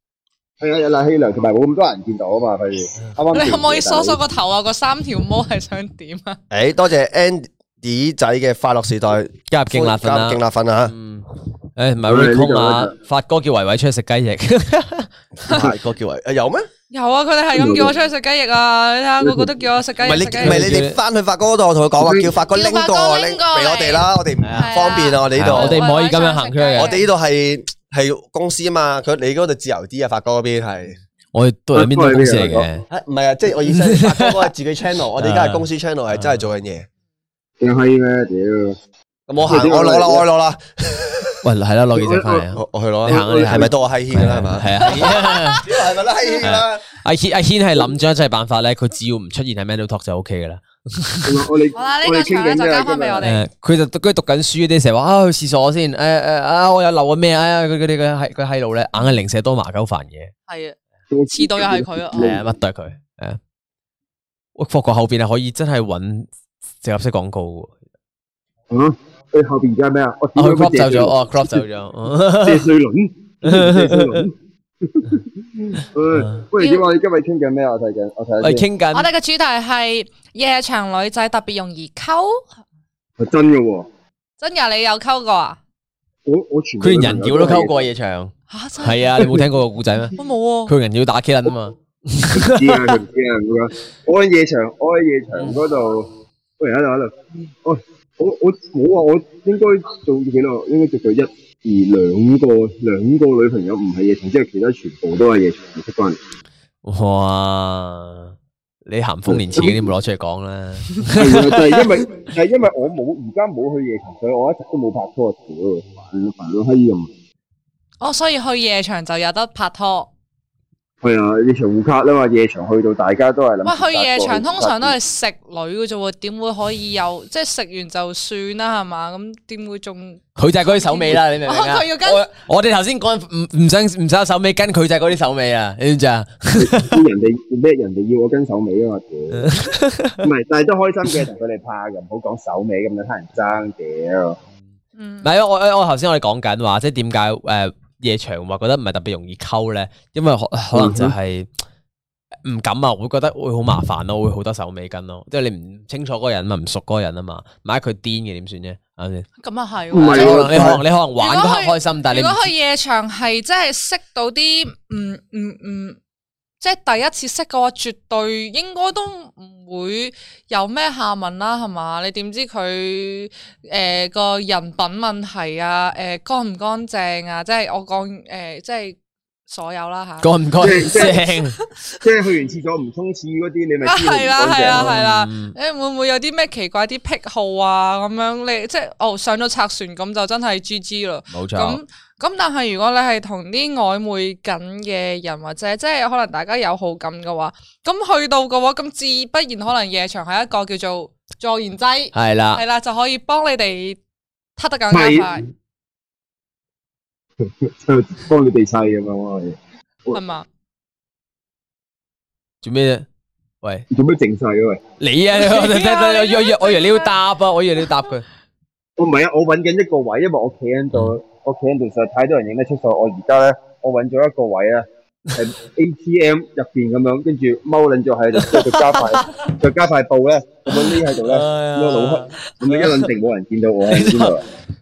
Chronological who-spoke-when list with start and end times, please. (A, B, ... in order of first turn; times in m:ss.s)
0:00.6-0:04.2 A
0:03.3-0:06.4 B
0:06.5-0:10.9 C
0:09.5-0:11.3 D
0:11.8-0:15.1 D
0:12.1-0:12.9 A
0:15.5-0:16.7 C
0:16.9-0:20.7 B
0:17.5-0:17.9 A
0:19.2-0:19.5 A
0:20.0-0:25.8 C
0:20.4-0:21.0 D
0:22.0-0:22.3 A
0:22.5-0:27.1 B
0:24.4-0:24.8 D
0:25.3-0:26.9 D
0:26.8-0:31.0 C
0:31.3-0:32.8 D
0:31.7-0:32.7 A
0:32.9-0:36.9 C
0:33.7-0:34.5 D
0:35.2-0:36.4 D
0:37.6-0:38.8 A
0:39.3-0:41.4 C
0:39.4-0:40.3 A
0:41.4-0:45.6 D
0:42.0-0:42.5 A
0:42.6-0:46.8 C
0:43.1-0:43.7 A
0:45.0-0:45.6 B
0:46.4-0:51.4 D
0:51.2-0:53.2 A
0:51.8-0:53.4 B
0:53.2-1:00.3 D
1:00.5-1:00.8 B
1:01.1-1:02.4 A
1:01.3-1:02.4 B
1:02.2-1:03.4 D
1:04.6-1:06.3 D
1:06.8-1:07.7 D
1:08.7-1:11.6 A
1:10.4-1:12.7 D
1:12.2-1:18.6 A
1:13.4-1:14.2 D
1:16.2-1:16.4 D
1:16.6-1:16.9 B
1:18.4-1:19.1 D
1:18.9-1:22.5 B
1:23.2-1:23.9 A
1:24.4-1:25.6 B
1:26.3-1:27.8 A
1:26.8-1:30.2 D
1:28.5-1:29.4 B
1:30.2-1:30.7 B
1:30.7-1:33.0 D
1:32.3-1:46.2 A
1:46.8-1:51.9 D
1:49.3-1:49.9 A
1:51.1-1:57.1 A
1:58.0-2:00.1 B
2:01.0-2:05.0 A
2:03.6-2:12.3 B
2:10.4-2:17.0 D
2:16.6-2:19.5 A
2:19.3-2:20.3 D
2:20.2-2:24.4 A
2:25.0-2:25.3 B
2:25.2-2:31.5 D
2:30.7-2:31.2 A
2:32.4-2:39.2 D
2:39.4-2:46.0 B
2:39.9-2:40.8 A
2:40.0-2:42.5 D
2:46.6-3:01.9 B
3:00.2-3:01.6 D
3:00.6-3:01.2 A
3:02.0-3:04.9 A
3:03.8-3:24.0 B
3:04.7-3:05.5 D
3:11.3-3:11.8 D
3:22.1-3:22.6 D
3:24.6-3:25.4 B
3:24.9-3:25.4 A
3:27.4-3:30.2 A
3:30.1-3:30.5 B
3:32.6-3:33.1 D
3:33.9-3:34.8 A
3:35.0-3:38.2 D
3:35.3-3:37.1 B
3:39.0-3:54.4 A
3:48.4-3:49.5 D
3:50.7-3:53.0 D
3:53.9-3:54.4 D